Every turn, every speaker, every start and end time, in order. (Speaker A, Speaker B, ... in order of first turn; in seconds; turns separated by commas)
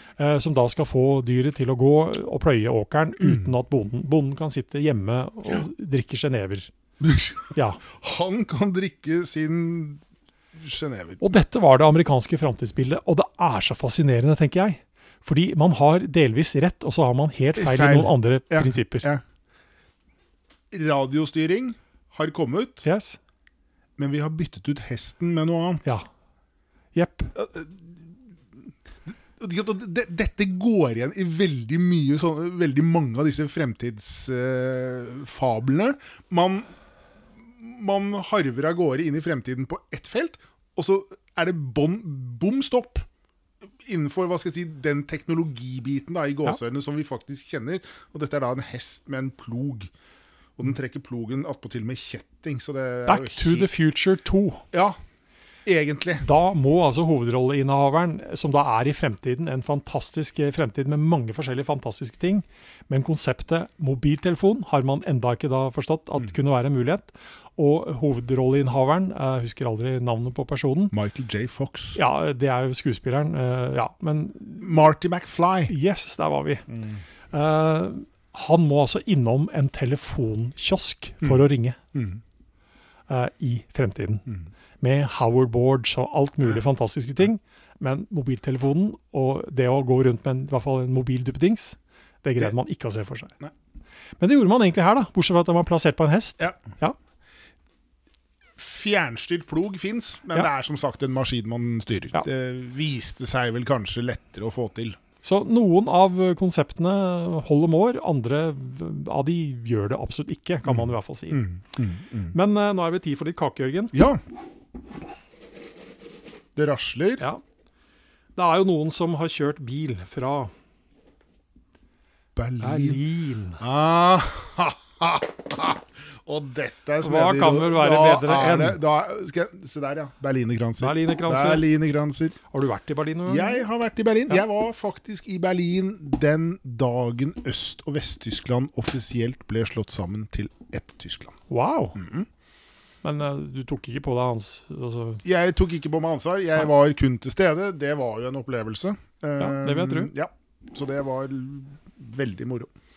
Speaker A: 0.2-6.7, Speaker B: 3.2-3.5, Speaker B: 7.0-10.0, Speaker A: 7.5-7.8, Speaker B: 10.6-11.2, Speaker A: 11.2-19.1, Speaker B: 17.6-19.2, Speaker B: 20.7-22.9, Speaker A: 22.8-23.2, Speaker B: 24.0-25.8, Speaker A: 26.9-27.3, Speaker B: 27.3-28.0, Speaker B: 29.1-36.7, Speaker B: 37.5-43.0, Speaker B: 43.8-49.9, Speaker B: 50.6-53.7, Speaker A: 53.1-54.6, Speaker B: 54.7-55.0, Speaker B: 55.6-56.2, Speaker A: 56.2-70.9, Speaker B: 70.9-72.0, Speaker A: 72.0-74.8, Speaker B: 74.6-75.7, Speaker A: 75.7-76.7, Speaker B: 76.7-77.0, Speaker A: 77.3-81.8, Speaker B: 81.9-82.2, Speaker A: 83.1-84.3, Speaker A: 84.8-93.4, Speaker A: 94.2-97.0, Speaker B: 98.6-105.0, Speaker A: 105.2-111.5, Speaker B: 110.7-112.3, Speaker A: 112.3-113.9, Speaker B: 113.9-114.2, Speaker B: 116.5-117.2, Speaker A: 118.3-120.5, Speaker B: 122.3-123.0, Speaker A: 122.6-123.6, Speaker B: 123.6-132.3, Speaker A: 127.0-128.8, Speaker A: 130.8-131.7, Speaker A: 132.5-133.6, Speaker B: 133.2-141.4, Speaker A: 141.5-142.0, Speaker B: 141.9-142.3, Speaker A: 143.0-145.2, Speaker B: 145.2-152.7, Speaker A: 149.4-150.1